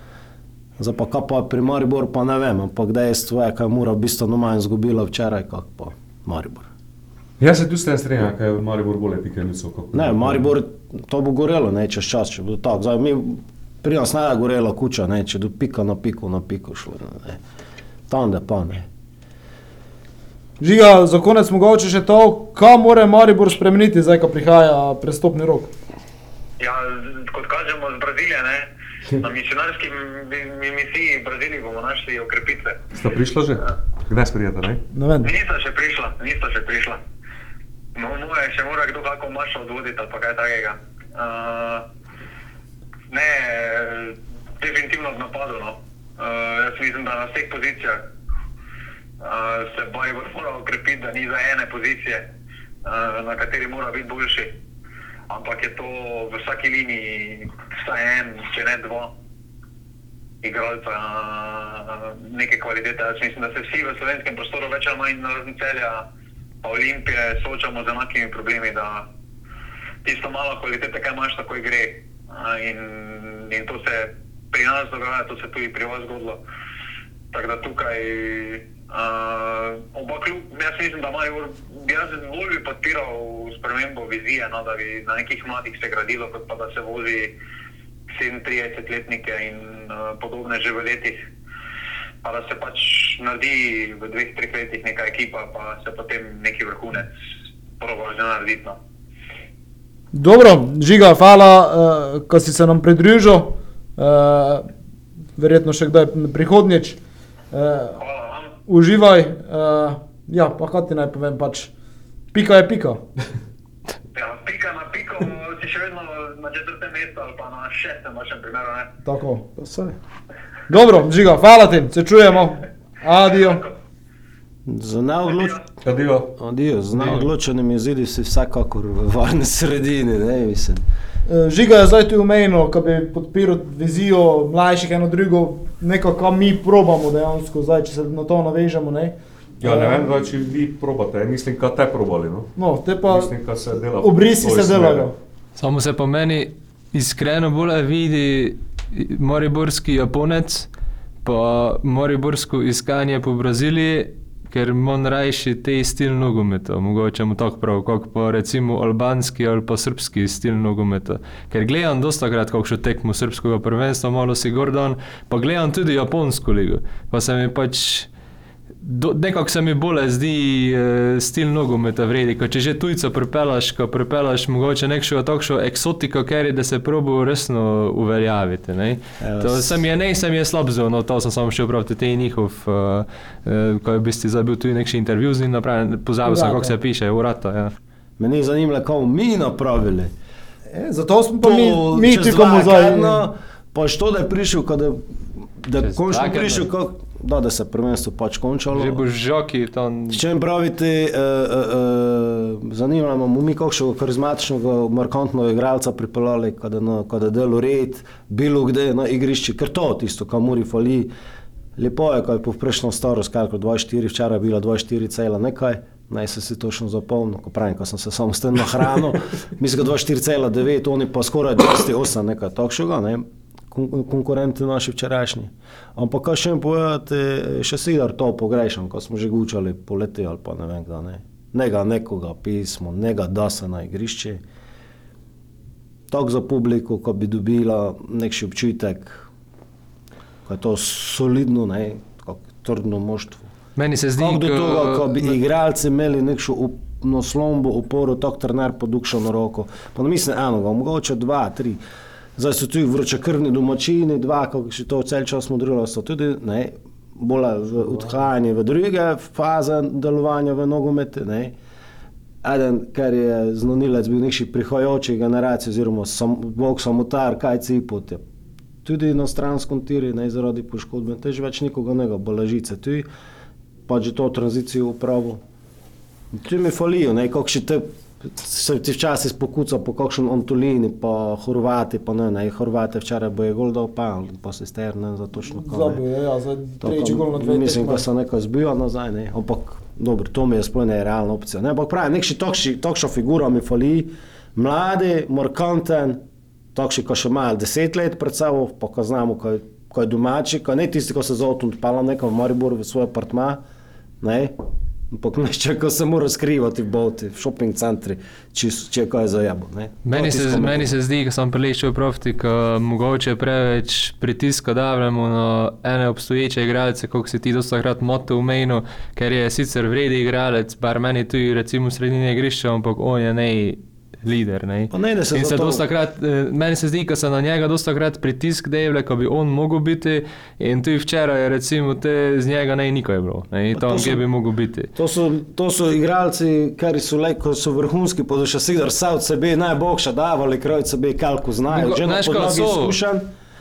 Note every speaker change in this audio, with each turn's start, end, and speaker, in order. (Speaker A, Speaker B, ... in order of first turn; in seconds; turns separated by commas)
Speaker A: 0.8-6.7, Speaker B: 7.4-10.5, Speaker A: 9.9-17.4, Speaker A: 18.1-18.9, Speaker C: 20.6-25.7, Speaker D: 26.6-32.8, Speaker B: 32.9-34.8, Speaker C: 34.9-35.3, Speaker D: 35.2-37.0, Speaker D: 37.9-41.9, Speaker D: 43.1-48.1, Speaker D: 49.2-52.3, Speaker D: 52.8-54.6, Speaker D: 55.3-59.1, Speaker D: 60.4-66.0, Speaker D: 66.6-69.1, Speaker D: 70.0-76.4, Speaker D: 77.3-87.3, Speaker D: 88.1-91.3, Speaker D: 92.2-97.1, Speaker D: 97.8-98.8, Speaker C: 100.1-104.7, Speaker C: 105.4-107.0, Speaker C: 107.5-108.0, Speaker D: 108.0-108.5, Speaker C: 108.7-111.7, Speaker C: 112.3-113.0, Speaker D: 114.1-118.9, Speaker C: 119.0-119.5, Speaker A: 119.6-120.0, Speaker C: 120.7-123.6, Speaker A: 124.7-125.6, Speaker D: 125.3-125.6, Speaker B: 125.8-126.3, Speaker A: 126.4-130.8, Speaker B: 126.9-127.3, Speaker C: 131.3-140.1, Speaker B: 139.6-142.5, Speaker C: 142.6-143.3, Speaker B: 143.0-145.1, Speaker C: 144.0-145.1, Speaker E: 145.6-150.7, Speaker E: 151.2-168.1, Speaker E: 168.8-187.7, Speaker A: 179.2-179.8, Speaker C: 186.2-186.8, Speaker A: 188.2-190.1, Speaker C: 190.7-193.2, Speaker A: 191.4-199.0, Speaker E: 195.8-196.7, Speaker E: 198.7-200.2, Speaker A: 200.1-211.1, Speaker A: 211.8-234.4, Speaker A: 236.1-239.3, Speaker A: 240.4-243.5, Speaker E: 243.8-245.3, Speaker A: 244.2-251.8, Speaker A: 252.3-261.5, Speaker A: 262.4-268.2, Speaker A: 268.8-273.1, Speaker A: 273.9-275.4, Speaker A: 276.3-286.0, Speaker C: 285.4-288.1, Speaker A: 286.8-296.2, Speaker A: 296.7-303.6, Speaker A: 304.2-304.6, Speaker A: 305.1-310.9, Speaker E: 310.1-334.9, Speaker A: 324.9-325.8, Speaker A: 333.7-334.2, Speaker A: 334.9-343.3, Speaker E: 341.7-343.0